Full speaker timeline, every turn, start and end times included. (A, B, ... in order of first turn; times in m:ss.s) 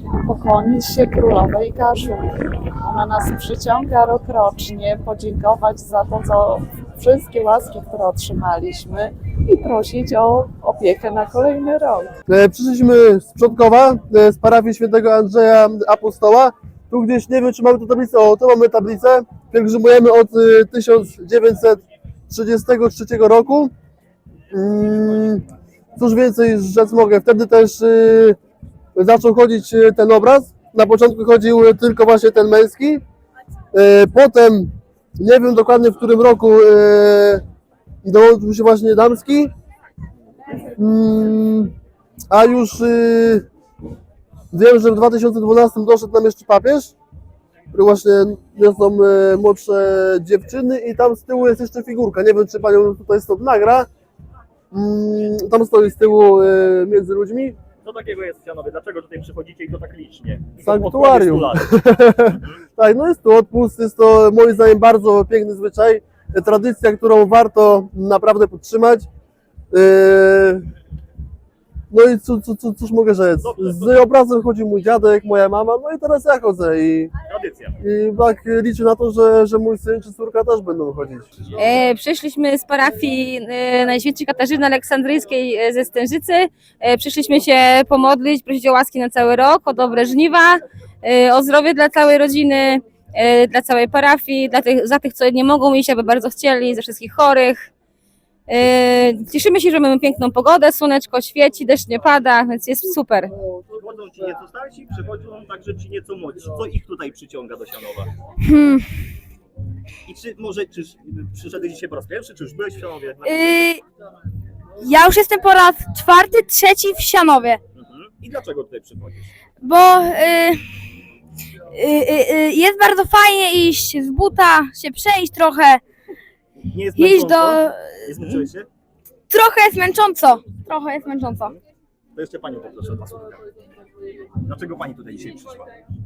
0:00.2-0:12.1 A
0:12.3-0:23.7 B
0:24.5-0:28.4 B
0:29.0-0:33.0 B
0:33.7-0:37.4 B
0:38.0-0:39.5 B
0:40.8-0:41.7 B
0:42.3-0:43.5 B
0:44.5-0:47.0 B
0:47.7-0:53.9 B
0:54.7-0:57.6 B
0:57.8-1:01.7 C
1:00.6-1:09.1 B
1:09.7-1:10.7 B
1:11.9-1:17.1 B
1:13.4-1:14.0 C
1:17.3-1:17.8 C
1:17.8-1:21.3 B
1:21.6-1:37.7 D
1:38.5-1:43.3 D
1:43.7-1:48.1 C
1:48.4-1:48.9 E
1:50.1-1:53.7 C
1:53.3-1:53.8 E
1:54.8-1:57.6 E
1:57.8-1:59.3 C
1:59.6-2:00.6 E
2:01.7-2:05.8 E
2:06.7-2:08.7 C
2:07.0-2:07.8 E
2:09.3-2:11.5 E
2:12.2-2:13.4 C
2:14.4-2:15.7 C